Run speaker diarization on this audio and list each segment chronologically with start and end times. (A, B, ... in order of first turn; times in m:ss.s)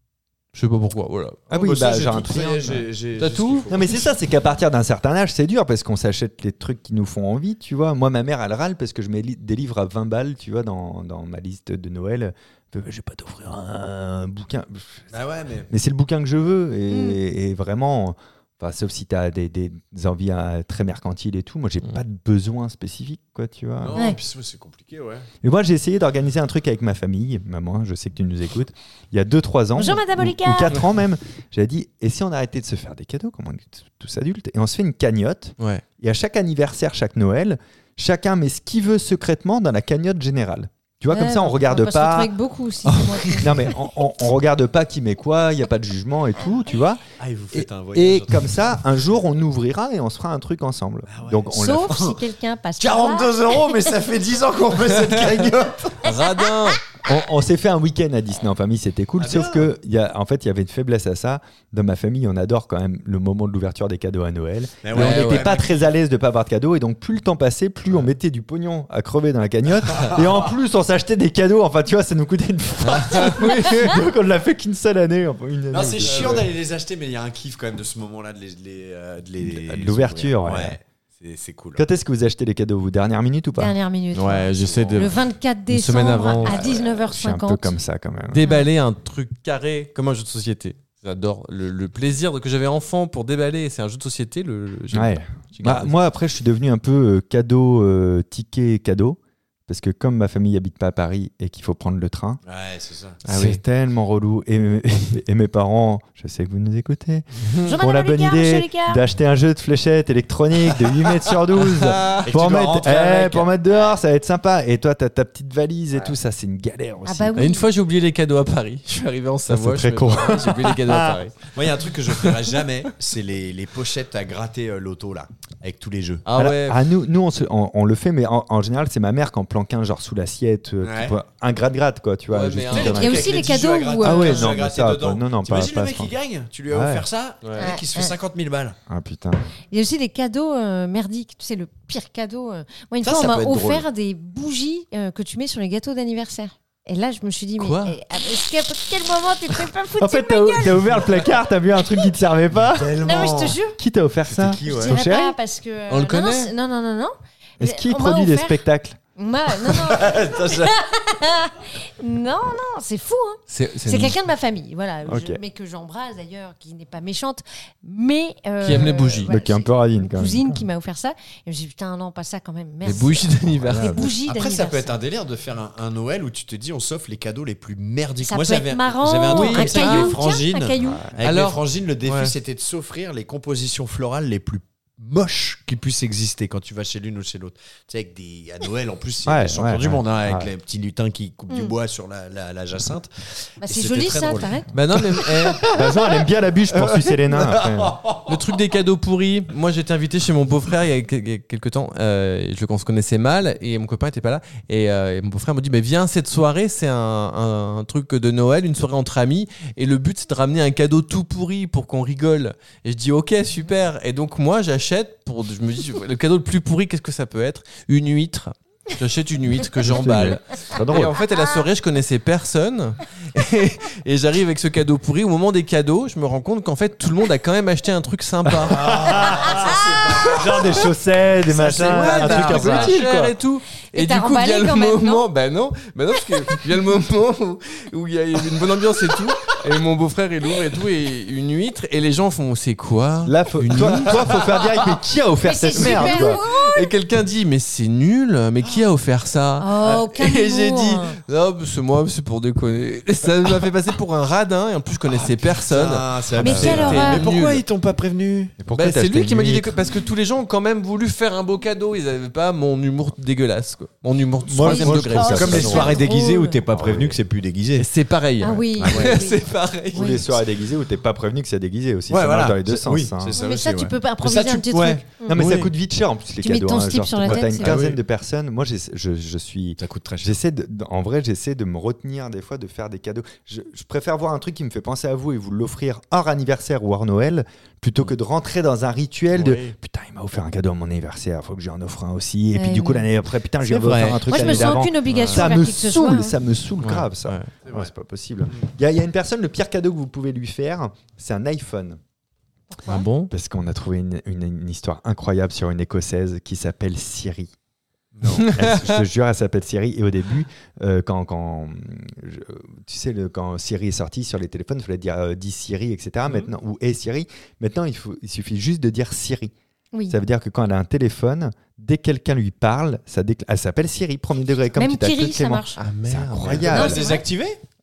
0:00.5-0:01.4 A
0:01.5-0:02.9 B
0:01.5-0:04.1 C
0:03.2-0:03.7 A
0:03.7-0:15.0 B
0:15.1-0:15.7 C
0:15.7-0:24.0 B
0:16.9-0:17.2 D
0:23.8-0:25.3 C
0:25.4-0:42.3 B
0:29.8-0:30.8 D
0:41.1-0:43.7 D
0:42.9-0:43.7 C
0:43.4-0:47.0 B
0:47.2-0:48.8 C
0:47.5-0:52.0 B
0:51.1-0:52.2 C
0:51.5-0:53.9 D
0:52.8-0:56.1 C
0:55.1-0:55.6 B
0:56.0-0:56.9 A
0:57.0-1:16.5 B
0:59.2-0:59.7 C
1:04.8-1:05.9 C
1:04.9-1:05.6 A
1:09.9-1:10.3 C
1:12.8-1:14.0 A
1:15.7-1:21.8 C
1:19.4-1:20.8 B
1:21.8-1:23.8 B
1:23.6-1:27.7 D
1:24.1-1:26.8 A
1:24.3-1:25.2 C
1:26.7-1:28.4 B
1:28.3-1:35.9 A
1:28.4-1:28.7 D
1:34.9-1:42.4 B
1:42.4-1:43.2 C
1:43.2-1:43.6 A
1:43.3-1:57.5 B
1:47.6-1:49.0 D
1:51.0-1:53.9 C
1:51.7-1:52.2 A
1:57.0-1:57.7 D
1:57.4-2:01.5 A
1:59.5-2:01.2 B
2:01.5-2:06.2 C
2:06.2-2:06.8 A
2:06.3-2:13.4 B
2:10.8-2:11.2 C
2:12.3-2:13.2 A
2:12.7-2:18.8 C
2:12.7-2:14.5 D
2:14.0-2:16.1 B
2:16.7-2:17.0 B
2:17.6-2:18.1 D
2:18.9-2:19.4 B
2:19.7-2:31.2 D
2:23.0-2:23.8 C
2:27.6-2:28.0 A
2:30.0-2:35.4 B
2:32.6-2:33.6 C
2:33.0-2:33.8 D
2:34.3-2:35.0 C
2:34.7-2:38.6 D
2:35.9-2:36.5 A
2:37.6-2:39.0 B
2:39.2-2:54.9 D
2:39.6-2:40.8 C
2:43.5-2:44.2 A
2:45.0-2:45.4 B
2:48.6-2:49.3 A
2:49.2-2:50.6 B
2:52.8-2:54.1 A
2:53.4-2:54.1 B
2:54.2-3:18.4 C
2:58.2-3:01.1 D
2:59.3-3:00.1 A
3:00.8-3:01.2 B
3:01.2-3:02.3 A
3:09.2-3:10.5 B
3:13.6-3:14.7 D
3:14.7-3:15.7 A
3:15.7-3:18.0 B
3:18.3-3:49.1 A
3:39.8-3:41.2 B
3:48.4-3:53.4 B
3:48.6-3:50.9 C
3:49.3-3:49.7 D
3:51.5-3:53.0 C
3:51.7-4:04.4 A
3:53.9-3:55.3 D
4:03.2-4:06.4 B
4:03.8-4:04.6 C
4:05.4-4:06.9 D
4:05.8-4:17.6 A
4:09.6-4:11.2 D
4:15.0-4:18.6 C
4:16.4-4:17.2 D
4:16.4-4:17.0 B
4:18.6-4:19.8 B
4:18.7-4:26.0 A
4:24.4-4:26.0 B
4:24.6-4:26.6 D
4:25.2-4:27.9 C
4:26.7-4:27.2 B
4:27.8-4:30.3 A
4:28.4-4:29.4 D
4:28.8-4:29.2 C
4:29.9-4:30.2 D
4:29.9-4:33.3 B
4:32.1-4:35.7 C
4:33.3-4:35.4 D
4:35.3-5:02.0 B
4:36.4-4:37.8 D
4:37.3-4:38.0 C
4:39.8-4:40.4 C
4:49.3-4:49.7 A
4:52.5-4:53.1 D
4:53.6-4:54.8 C
4:54.3-4:56.4 D
4:55.1-4:55.5 A
4:56.8-4:57.5 A
5:02.7-5:03.0 D
5:02.9-5:03.3 A
5:03.3-5:07.5 B
5:08.2-5:08.5 C
5:08.3-5:09.0 A
5:08.3-5:19.5 B
5:20.1-5:27.1 B
5:24.8-5:25.8 D
5:25.8-5:26.7 A
5:26.4-5:27.6 C
5:26.7-5:27.2 D